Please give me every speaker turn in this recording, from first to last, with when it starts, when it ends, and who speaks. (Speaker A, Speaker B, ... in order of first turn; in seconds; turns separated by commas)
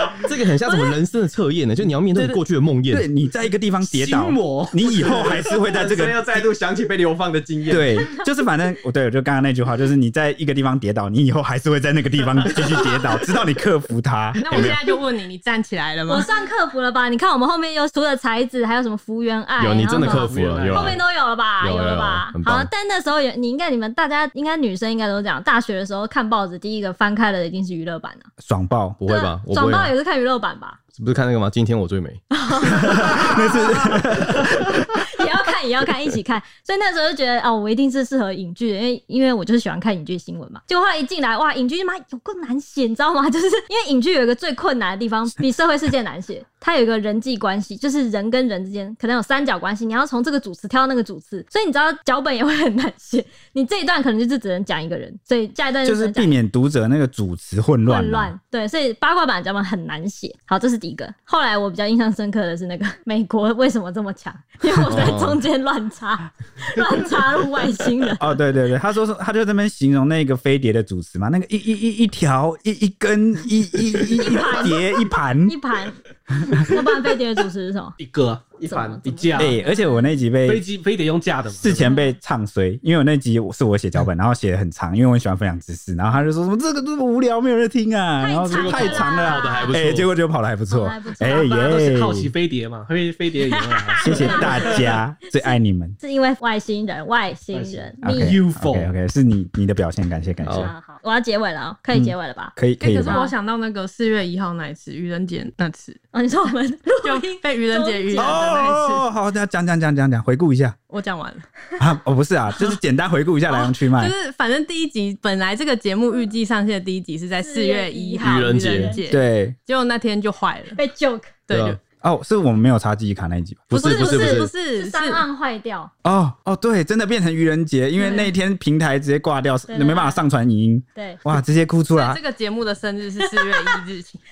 Speaker A: 0.2-3.0, Speaker B: 2.9-6.5, Speaker C: 3.8-5.2, Speaker D: 5.1-8.1, Speaker B: 7.7-14.7, Speaker E: 14.4-16.3, Speaker A: 14.5-14.8, Speaker F: 16.1-28.3, Speaker A: 19.6-21.0, Speaker C: 19.9-21.0, Speaker A: 21.6-22.7, Speaker B: 28.4-29.0, Speaker A: 29.0-29.9, Speaker F: 29.1-30.8, Speaker A: 30.9-32.2, Speaker F: 32.3-34.1, Speaker B: 32.7-34.9, Speaker F: 35.0-56.4, Speaker B: 55.8-58.3, Speaker F: 57.8-68.3, Speaker A: 64.9-65.4, Speaker B: 68.2-75.5, Speaker F: 74.1-78.0, Speaker B: 76.3-76.8, Speaker C: 78.0-78.5, Speaker D: 78.6-79.4, Speaker F: 78.6-80.2, Speaker C: 79.1-79.6, Speaker B: 79.3-80.6, Speaker C: 80.4-81.9, Speaker B: 81.5-92.3, Speaker F: 81.8-82.2, Speaker F: 88.2-89.8, Speaker A: 88.5-90.1, Speaker F: 90.7-91.6, Speaker C: 91.3-94.8, Speaker F: 93.5-94.8, Speaker B: 94.0-96.0, Speaker F: 96.0-98.4, Speaker C: 97.6-98.9, Speaker B: 98.0-100.7, Speaker A: 100.4-100.7, Speaker F: 100.5-103.3, Speaker B: 101.9-103.2, Speaker E: 102.8-106.0, Speaker F: 106.1-108.5, Speaker E: 107.0-109.0, Speaker B: 108.2-110.8, Speaker E: 110.9-111.4, Speaker B: 111.8-114.2, Speaker E: 113.5-120.8, Speaker F: 117.4-119.0, Speaker A: 118.2-119.0, Speaker B: 119.1-119.5, Speaker F: 120.7-121.3, Speaker E: 121.5-121.8, Speaker A: 121.5-121.8, Speaker B: 122.0-123.8, Speaker A: 123.7-124.5, Speaker F: 123.8-125.9, Speaker E: 123.8-125.2, Speaker B: 126.0-132.2, Speaker F: 128.0-128.3, Speaker F: 129.7-130.2, Speaker E: 131.9-134.2, Speaker F: 133.2-133.8